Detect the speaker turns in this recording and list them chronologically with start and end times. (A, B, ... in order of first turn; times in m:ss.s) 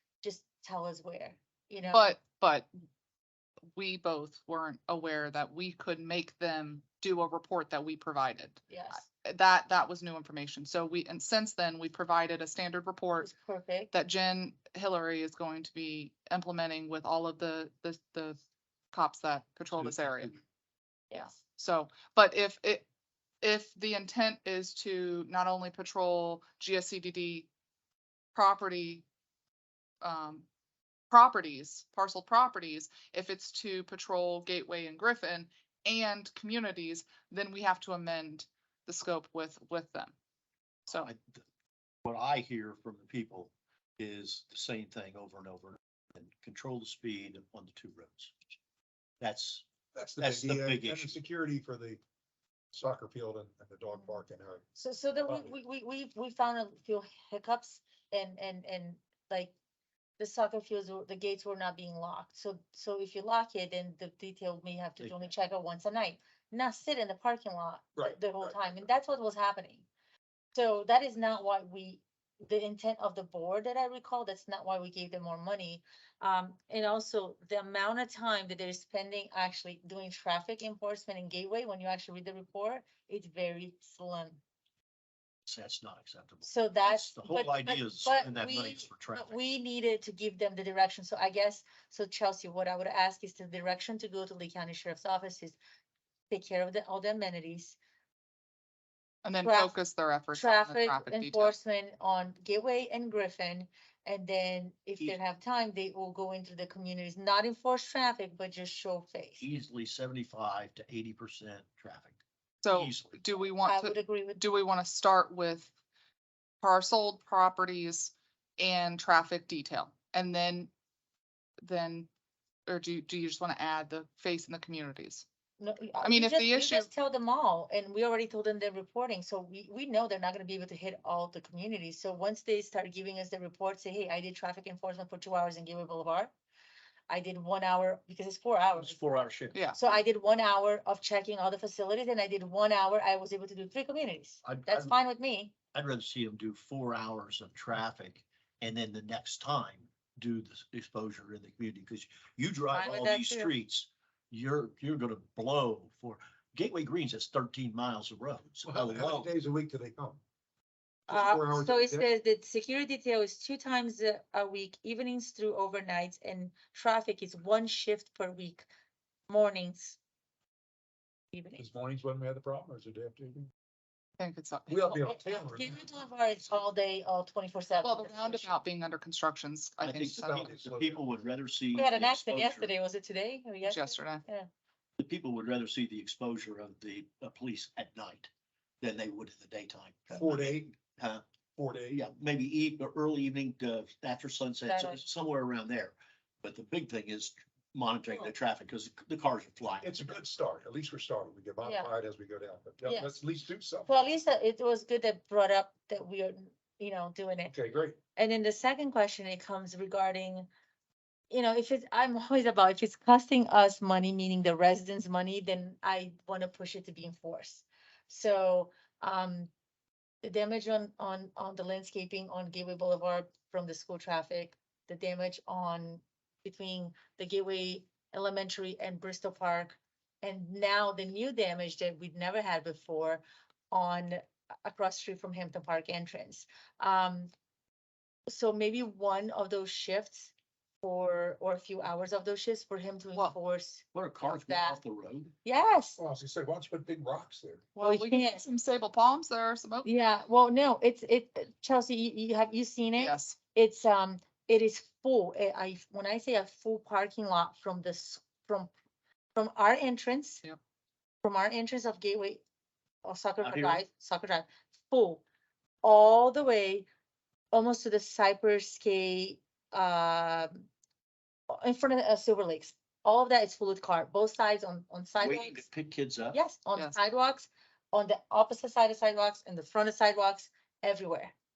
0:00.2-0:02.2 A
0:01.9-0:02.7 B
0:03.7-0:13.3 B
0:08.7-0:09.1 A
0:13.2-0:13.9 A
0:13.9-0:18.4 B
0:18.9-0:20.4 B
0:19.8-0:20.3 C
0:21.1-0:22.8 B
0:23.4-0:27.5 B
0:28.3-0:29.0 B
0:30.0-0:30.4 B
0:31.1-0:40.1 B
0:40.9-0:41.4 D
0:42.0-0:48.3 D
0:49.2-0:49.7 D
0:49.9-0:52.0 C
0:50.2-0:51.2 D
0:52.7-0:54.6 C
0:53.9-0:54.2 A
0:54.8-0:59.5 A
1:00.2-1:09.9 A
1:08.0-1:08.6 C
1:10.5-1:24.4 A
1:25.5-1:29.3 D
1:26.4-1:35.6 A
1:36.3-1:37.8 A
1:39.2-1:41.5 B
1:39.4-1:39.7 A
1:40.3-1:49.4 A
1:49.4-1:52.2 D
1:52.6-1:55.7 B
1:52.7-1:53.2 D
1:53.6-1:54.4 A
1:56.6-2:00.7 B
2:01.6-2:02.1 B
2:02.7-2:05.2 B
2:05.6-2:16.3 A
2:06.0-2:06.9 B
2:17.1-2:19.0 A
2:18.8-2:20.0 D
2:19.7-2:25.5 A
2:24.4-2:25.0 D
2:25.7-2:39.3 D
2:32.7-2:33.5 A
2:38.7-2:40.2 C
2:41.1-2:42.1 C
2:41.1-2:48.7 A
2:49.3-2:50.0 A
2:51.3-2:51.6 A
2:51.6-2:53.5 C
2:54.2-2:54.9 B
2:54.7-2:55.8 C
2:55.1-2:58.5 A
2:57.8-3:00.5 B
2:59.8-3:02.7 D
3:00.2-3:01.0 C
3:01.7-3:04.5 A
3:03.6-3:04.2 B
3:05.0-3:11.2 D
3:10.1-3:10.8 C
3:11.6-3:12.0 C
3:11.9-3:20.0 D
3:14.6-3:15.1 A
3:19.8-3:24.0 C
3:21.6-3:21.9 A
3:22.9-3:23.2 A
3:23.9-3:27.5 A
3:27.5-3:28.0 C
3:28.2-3:30.5 A
3:31.3-3:39.5 A
3:40.2-3:57.3 A
3:58.3-4:00.3 A
4:00.8-4:04.8 A
4:03.9-4:05.3 D
4:05.4-4:06.0 A
4:06.0-4:07.7 C
4:07.8-4:09.9 B
4:07.8-4:08.4 A
4:09.8-4:18.7 A
4:13.0-4:13.4 B
4:19.4-4:20.4 A
4:21.2-4:22.4 A
4:23.0-4:25.2 A
4:23.4-4:23.8 D
4:25.8-4:26.9 A
4:27.5-4:30.7 A
4:31.5-4:35.6 A
4:35.2-4:36.4 D
4:36.3-4:41.3 A